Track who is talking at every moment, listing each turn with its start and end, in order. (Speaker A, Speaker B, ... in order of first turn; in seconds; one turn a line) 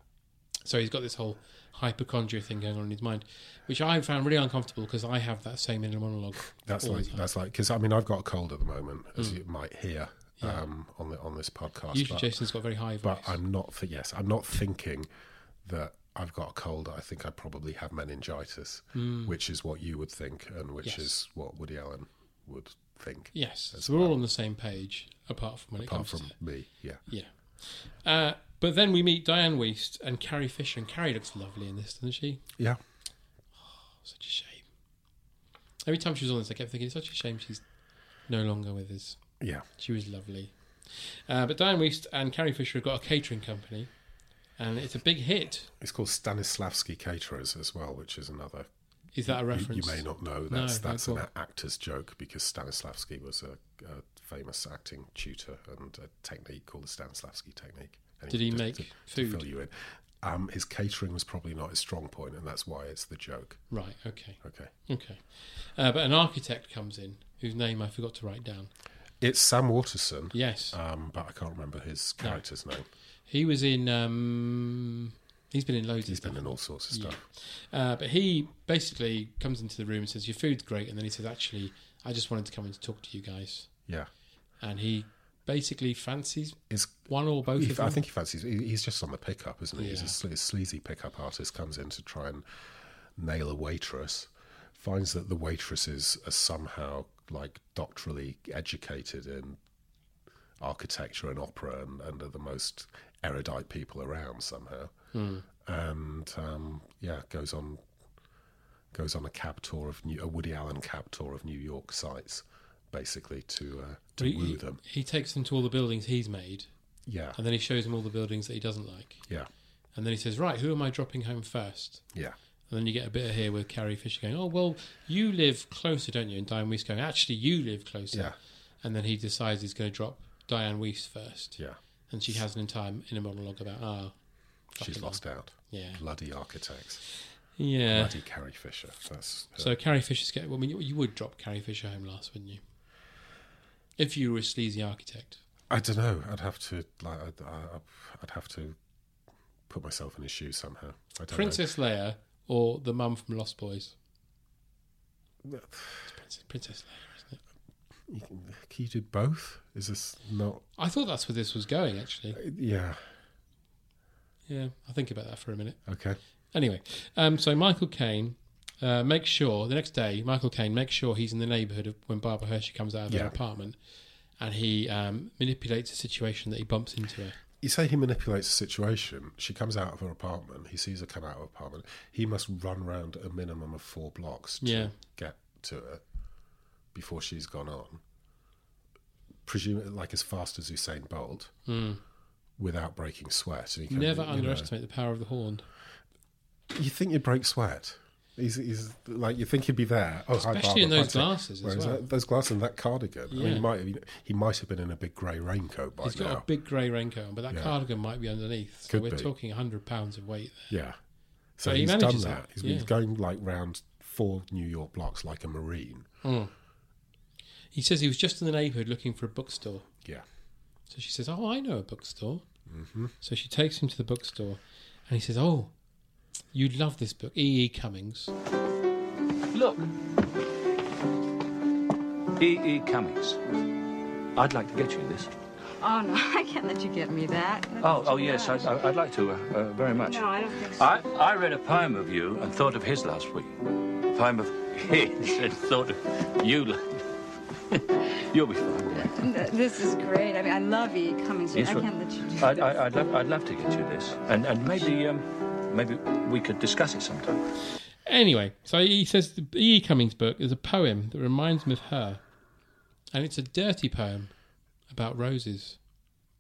Speaker A: 0.7-7.3
Speaker B: 6.6-12.4
Speaker A: 11.9-13.4
Speaker B: 13.0-15.1
Speaker B: 15.7-24.2
Speaker A: 18.9-19.4
Speaker A: 20.8-21.1
Speaker A: 23.3-26.3
Speaker B: 25.8-27.0
Speaker A: 27.1-32.4
Speaker A: 33.9-34.6
Speaker A: 35.8-37.6
Speaker A: 38.3-39.2
Speaker B: 39.4-39.6
Speaker A: 39.8-43.9
Speaker A: 44.6-45.7
Speaker B: 45.8-48.7
Speaker A: 49.1-51.2
Speaker B: 49.3-63.6
Speaker A: 58.3-59.5
Speaker A: 63.7-68.7
Speaker B: 64.4-64.7
Speaker B: 69.2-72.9
Speaker A: 70.3-70.8
Speaker A: 73.3-83.7
Speaker B: 76.1-77.2
Speaker A: 84.6-88.0
Speaker B: 86.7-92.5
Speaker A: 89.8-90.2
Speaker B: 93.2-99.6
Speaker B: 100.6-104.9
Speaker A: 105.1-105.5
Speaker B: 105.6-107.8
Speaker B: 108.9-114.8
Speaker A: 114.2-116.7
Speaker B: 117.1-117.4
Speaker A: 117.4-119.2
Speaker A: 120.0-122.0
Speaker A: 122.7-131.6
Speaker A: 132.1-134.2
Speaker A: 134.7-136.0
Speaker B: 134.8-137.0
Speaker A: 137.6-138.2
Speaker B: 137.9-139.7
Speaker A: 139.6-142.6
Speaker A: 144.0-145.4
Speaker B: 145.7-148.8
Speaker B: 149.7-151.7
Speaker A: 151.3-153.9
Speaker B: 155.4-156.0
Speaker A: 156.2-157.4
Speaker B: 158.1-160.6
Speaker A: 160.8-162.4
Speaker B: 162.3-163.1
Speaker A: 164.5-165.8
Speaker B: 165.9-166.2
Speaker A: 166.5-173.8
Speaker B: 173.1-173.3
Speaker A: 174.4-177.4
Speaker B: 177.6-186.0
Speaker A: 184.6-184.9
Speaker B: 186.9-188.0
Speaker B: 189.5-191.5
Speaker A: 191.7-192.0
Speaker B: 192.6-194.7
Speaker A: 193.9-195.7
Speaker B: 196.7-206.5
Speaker A: 200.4-202.0
Speaker A: 203.3-203.7
Speaker A: 206.0-210.7
Speaker B: 207.5-207.8
Speaker B: 208.9-209.3
Speaker B: 210.7-211.0
Speaker B: 211.6-216.1
Speaker A: 211.6-212.9
Speaker A: 216.2-216.5
Speaker A: 217.7-219.9
Speaker A: 220.9-222.4
Speaker B: 222.7-223.1
Speaker A: 223.2-225.7
Speaker A: 226.5-228.3
Speaker C: 229.5-229.8
Speaker C: 232.4-233.4
Speaker C: 234.4-235.3
Speaker D: 235.8-238.7
Speaker C: 237.8-247.0
Speaker D: 240.0-241.0
Speaker C: 247.7-249.3
Speaker D: 249.0-252.7
Speaker C: 251.5-251.9
Speaker C: 252.4-257.4
Speaker A: 258.1-262.2
Speaker A: 263.1-264.3
Speaker A: 264.9-265.8